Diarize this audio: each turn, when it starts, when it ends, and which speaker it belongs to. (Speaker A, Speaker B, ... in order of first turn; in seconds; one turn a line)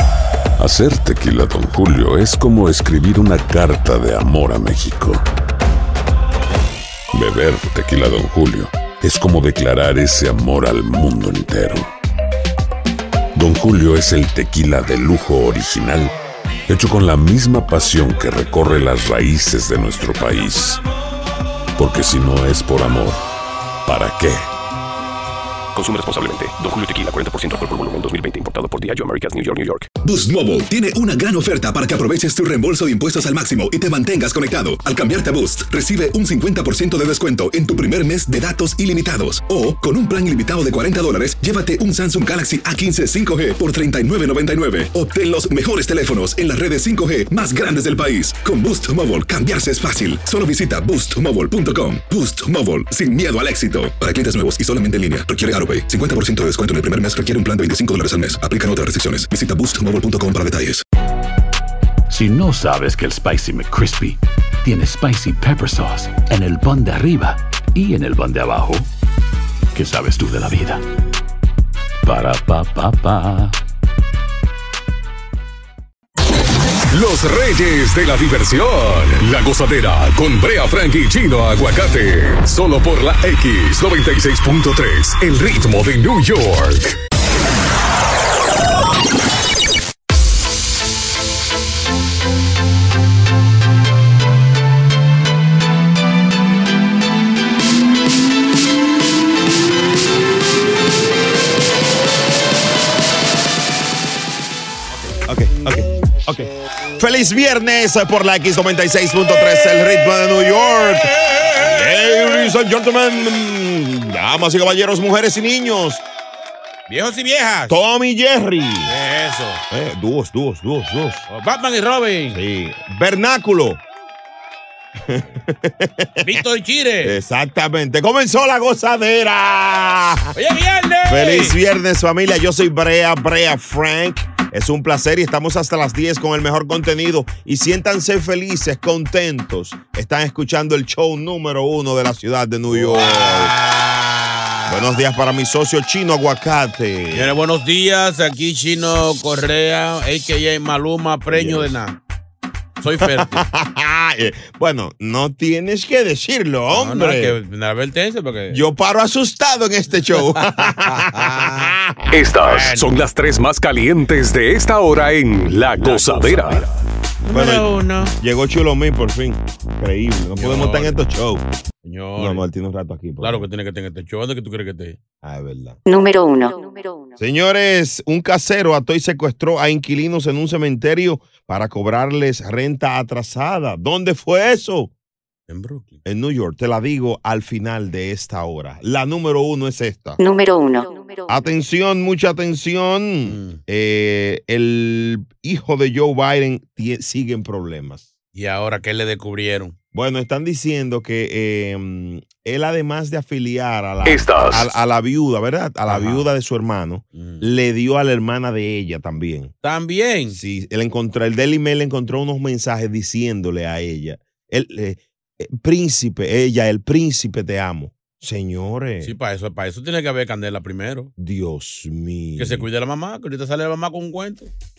Speaker A: 0.6-5.2
Speaker A: 7.1-11.9
Speaker A: 13.3-16.1
Speaker A: 16.7-20.8
Speaker A: 21.8-23.2
Speaker A: 23.9-24.5
Speaker B: 25.8-29.9
Speaker C: 30.0-60.8
Speaker D: 62.1-68.9
Speaker D: 69.7-70.8
Speaker D: 72.0-73.5
Speaker E: 76.9-86.9
Speaker F: 105.0-116.0
Speaker G: 111.1-112.0
Speaker G: 116.9-117.8
Speaker F: 117.7-118.9
Speaker G: 118.9-119.6
Speaker F: 119.7-121.2
Speaker G: 121.3-122.4
Speaker F: 122.3-123.8
Speaker F: 125.0-126.4
Speaker G: 126.2-127.2
Speaker F: 127.0-130.3
Speaker G: 130.4-131.6
Speaker F: 131.1-143.5
Speaker G: 142.7-144.9
Speaker F: 144.7-147.3
Speaker G: 147.1-152.0
Speaker F: 151.3-151.8
Speaker G: 152.8-153.4
Speaker F: 153.0-157.4
Speaker G: 156.7-158.6
Speaker F: 158.5-162.1
Speaker G: 160.6-161.7
Speaker E: 162.1-166.7
Speaker G: 162.4-162.9
Speaker F: 165.7-166.7
Speaker G: 167.3-168.2
Speaker F: 167.3-167.7
Speaker F: 168.2-171.4
Speaker G: 170.4-171.0
Speaker G: 171.8-172.4
Speaker F: 172.2-173.5
Speaker G: 173.2-175.0
Speaker F: 175.2-175.8
Speaker B: 175.9-177.2
Speaker F: 177.2-184.9
Speaker G: 185.5-186.0
Speaker F: 186.1-190.2
Speaker B: 190.2-191.4
Speaker F: 191.3-198.1
Speaker G: 193.3-193.6
Speaker G: 198.3-199.8
Speaker F: 199.9-209.5
Speaker E: 204.1-204.7
Speaker G: 205.9-206.3
Speaker G: 207.2-207.5
Speaker G: 209.6-210.4
Speaker F: 210.3-219.1
Speaker G: 219.0-221.1
Speaker F: 221.2-222.7
Speaker G: 222.4-224.5